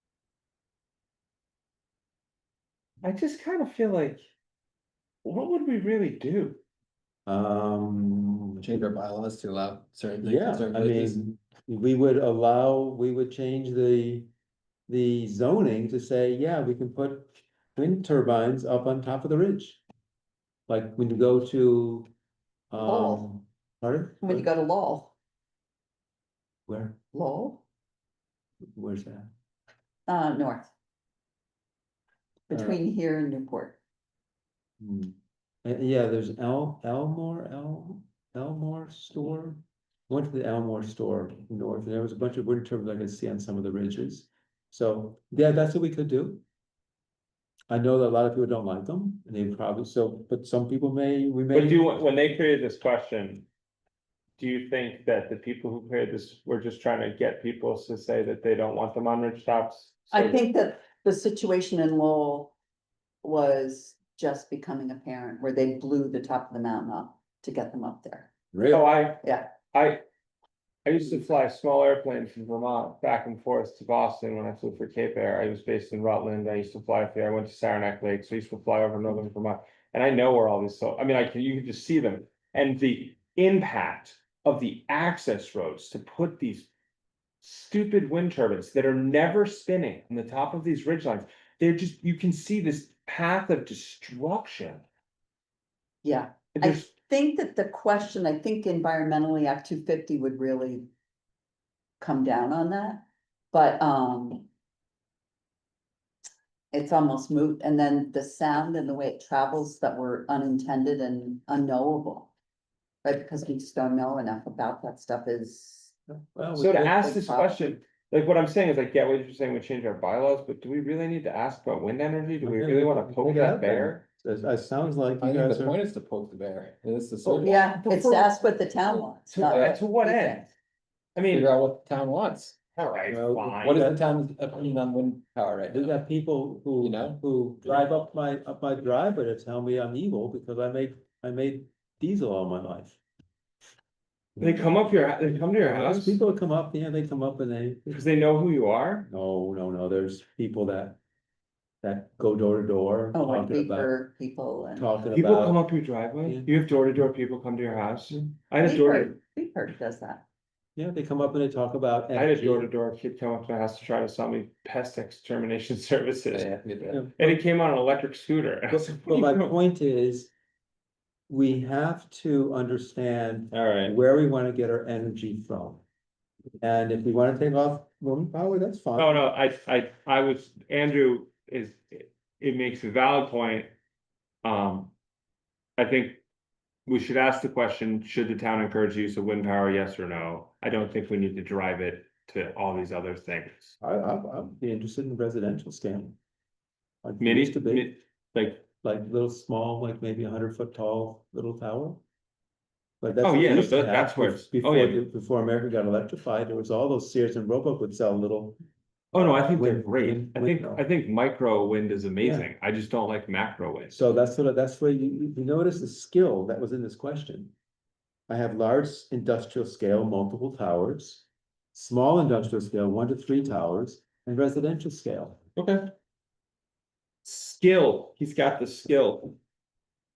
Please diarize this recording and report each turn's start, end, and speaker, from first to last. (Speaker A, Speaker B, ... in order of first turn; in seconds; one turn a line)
Speaker A: 3.0-4.2
Speaker A: 5.2-6.6
Speaker B: 7.2-8.6
Speaker C: 8.6-11.2
Speaker B: 10.2-14.3
Speaker B: 14.9-19.8
Speaker B: 20.7-22.1
Speaker B: 22.7-24.5
Speaker D: 22.8-23.2
Speaker D: 24.2-25.1
Speaker B: 26.7-27.0
Speaker D: 27.1-27.6
Speaker B: 28.8-29.3
Speaker D: 30.1-30.7
Speaker D: 32.5-33.8
Speaker B: 32.5-32.8
Speaker B: 34.8-46.4
Speaker B: 47.7-51.9
Speaker A: 51.5-53.5
Speaker A: 54.4-60.4
Speaker D: 60.1-62.5
Speaker D: 63.2-68.3
Speaker B: 68.5-68.9
Speaker A: 68.7-70.0
Speaker D: 69.2-69.5
Speaker A: 70.8-86.7
Speaker A: 87.4-94.8
Speaker D: 96.0-100.9
Speaker A: 96.5-96.9
Speaker D: 102.0-104.5
Speaker D: 106.7-112.3
Speaker D: 113.0-115.9
Speaker B: 116.1-116.9
Speaker A: 116.5-124.0
Speaker D: 116.8-117.6
Speaker B: 122.4-125.8
Speaker C: 125.2-127.7
Speaker A: 127.2-128.3
Speaker D: 127.4-130.4
Speaker A: 129.3-130.5
Speaker C: 129.4-129.8
Speaker A: 131.2-131.5
Speaker C: 131.3-135.9
Speaker A: 132.7-133.8
Speaker B: 133.3-134.0
Speaker B: 135.7-143.0
Speaker C: 136.8-137.9
Speaker A: 144.4-146.2
Speaker B: 145.6-148.0
Speaker A: 147.9-149.1
Speaker B: 149.1-151.0
Speaker B: 151.8-153.9
Speaker D: 153.1-154.9
Speaker B: 154.8-155.6
Speaker A: 155.1-159.1
Speaker B: 156.2-156.5
Speaker D: 158.6-160.2
Speaker B: 160.8-162.7
Speaker A: 162.1-166.6
Speaker C: 166.3-167.1
Speaker B: 166.9-167.4
Speaker A: 167.2-169.6
Speaker B: 168.7-170.3
Speaker B: 171.3-175.8
Speaker A: 173.5-174.0
Speaker B: 176.6-179.3
Speaker A: 178.9-183.7
Speaker A: 184.4-184.9
Speaker A: 185.8-186.2
Speaker A: 186.8-193.8
Speaker B: 193.8-196.2
Speaker B: 197.0-197.9
Speaker A: 197.2-198.7
Speaker B: 198.8-202.0
Speaker B: 203.0-208.6
Speaker A: 203.2-205.0
Speaker B: 209.1-210.8
Speaker A: 209.1-214.1
Speaker B: 212.2-212.5
Speaker B: 213.9-217.5
Speaker B: 218.3-225.4
Speaker A: 225.6-225.9
Speaker A: 227.2-229.3